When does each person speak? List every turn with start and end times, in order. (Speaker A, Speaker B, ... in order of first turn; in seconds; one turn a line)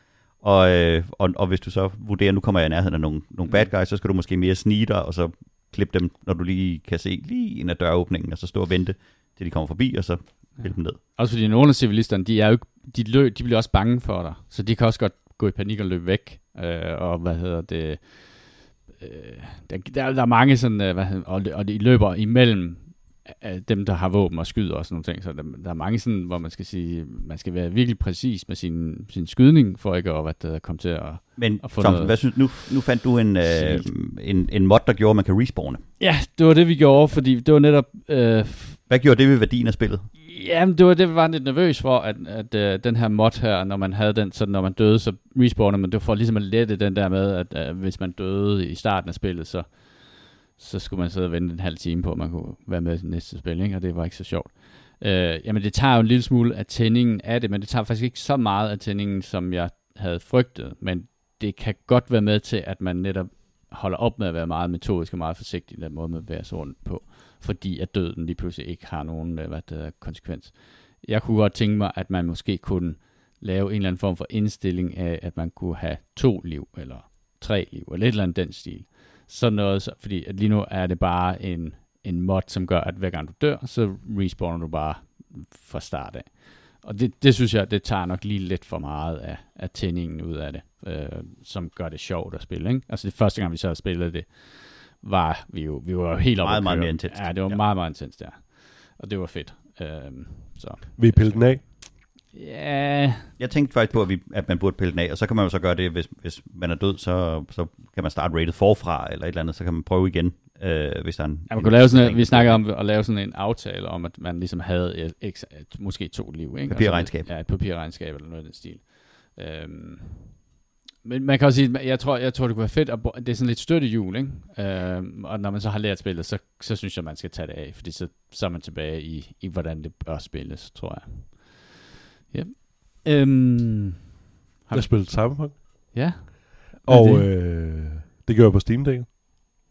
Speaker A: 0.4-11.0
Speaker B: 10.6-32.2
Speaker A: 31.4-35.8
Speaker B: 33.4-33.9
Speaker B: 36.0-38.8
Speaker A: 38.9-40.1
Speaker B: 40.2-103.3
Speaker A: 96.4-97.6
Speaker C: 101.0-101.7
Speaker A: 103.4-112.6
Speaker B: 111.5-120.4
Speaker A: 116.7-117.3
Speaker B: 121.0-134.0
Speaker B: 134.7-137.3
Speaker C: 134.7-136.3
Speaker C: 136.8-139.1